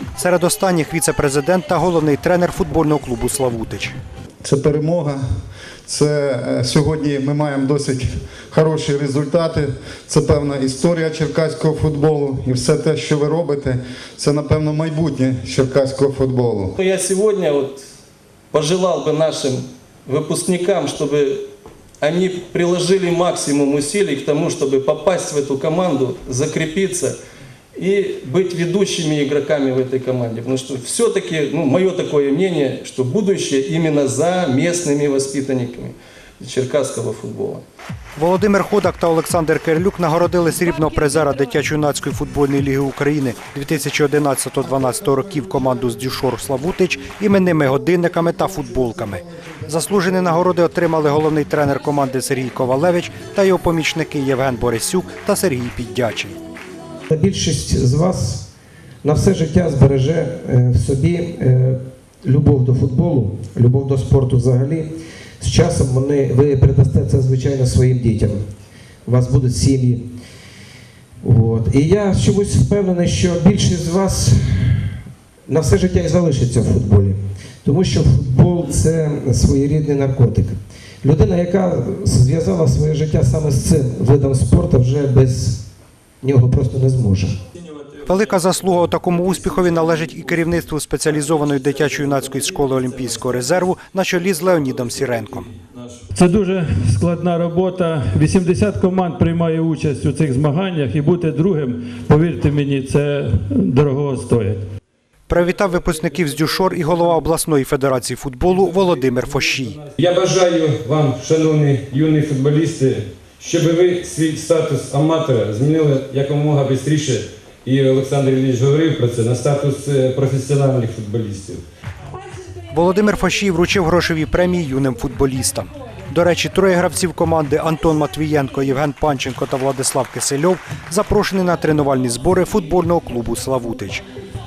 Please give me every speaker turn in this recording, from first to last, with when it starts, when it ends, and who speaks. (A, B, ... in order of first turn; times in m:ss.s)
0:00.2-0:04.0 A
0:04.4-0:05.2 B
0:05.8-0:16.8 B
0:16.8-0:17.8 C
0:18.5-0:21.4 C
0:22.0-0:27.2 C
0:27.8-0:37.6 C
0:38.2-0:56.4 A
0:57.1-0:58.5 D
0:59.0-1:08.4 D
1:09.1-1:10.1 D
1:11.2-1:14.9 D
1:15.5-1:25.6 D
1:26.2-1:27.4 D
1:28.0-1:35.5 A
1:36.1-1:44.6 E
1:45.3-1:49.8 A
1:48.5-2:01.6 F
2:02.7-2:14.1 A